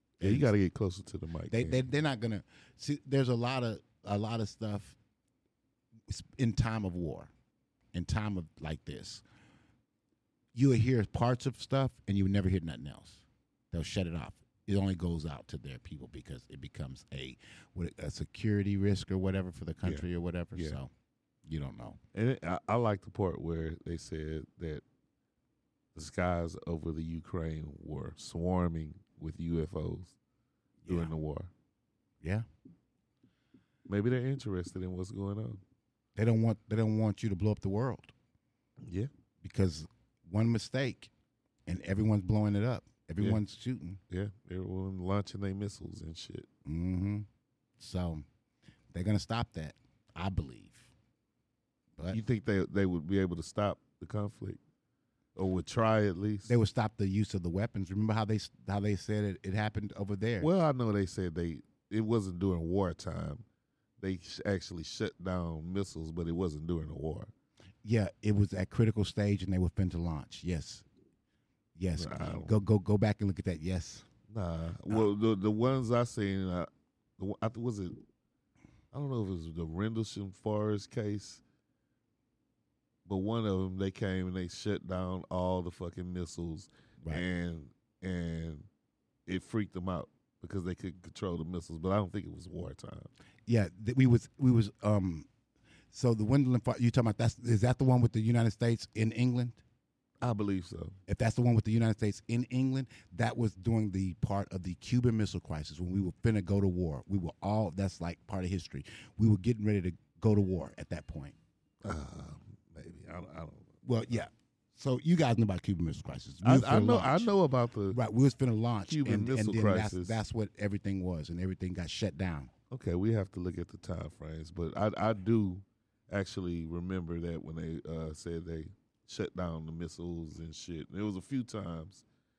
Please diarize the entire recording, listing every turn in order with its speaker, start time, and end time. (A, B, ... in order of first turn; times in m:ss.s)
0:00.2-0:00.5 A
0:00.2-0:01.9 B
0:01.5-0:05.0 A
0:06.1-0:07.3 A
0:07.9-0:09.2 A
0:10.5-0:20.9 A
0:19.8-0:20.8 B
0:21.4-0:22.0 A
0:22.1-0:24.8 B
0:25.9-0:30.1 B
0:30.8-0:31.1 A
0:30.9-0:31.5 B
0:33.9-0:35.6 B
0:36.2-0:38.1 A
0:39.4-0:41.1 A
0:41.6-0:44.0 A
0:44.1-0:46.5 B
0:46.6-0:47.3 A
0:47.8-0:48.2 A
0:48.9-0:50.9 A
0:52.1-0:54.6 B
0:55.4-0:56.5 B
0:56.4-1:00.5 A
1:00.4-1:03.4 B
1:04.0-1:07.3 B
1:07.8-1:10.8 A
1:11.8-1:14.1 A
1:12.0-1:12.5 B
1:14.3-1:18.0 B
1:18.9-1:21.4 B
1:23.0-1:28.7 B
1:29.3-1:33.1 B
1:33.5-1:35.3 A
1:35.9-1:39.6 A
1:40.2-1:41.0 B
1:41.1-1:51.4 A
1:51.8-1:54.1 B
1:53.8-1:57.3 A
1:56.4-1:58.0 B
1:57.9-2:02.5 A
1:58.9-2:00.2 B
2:02.7-2:12.0 B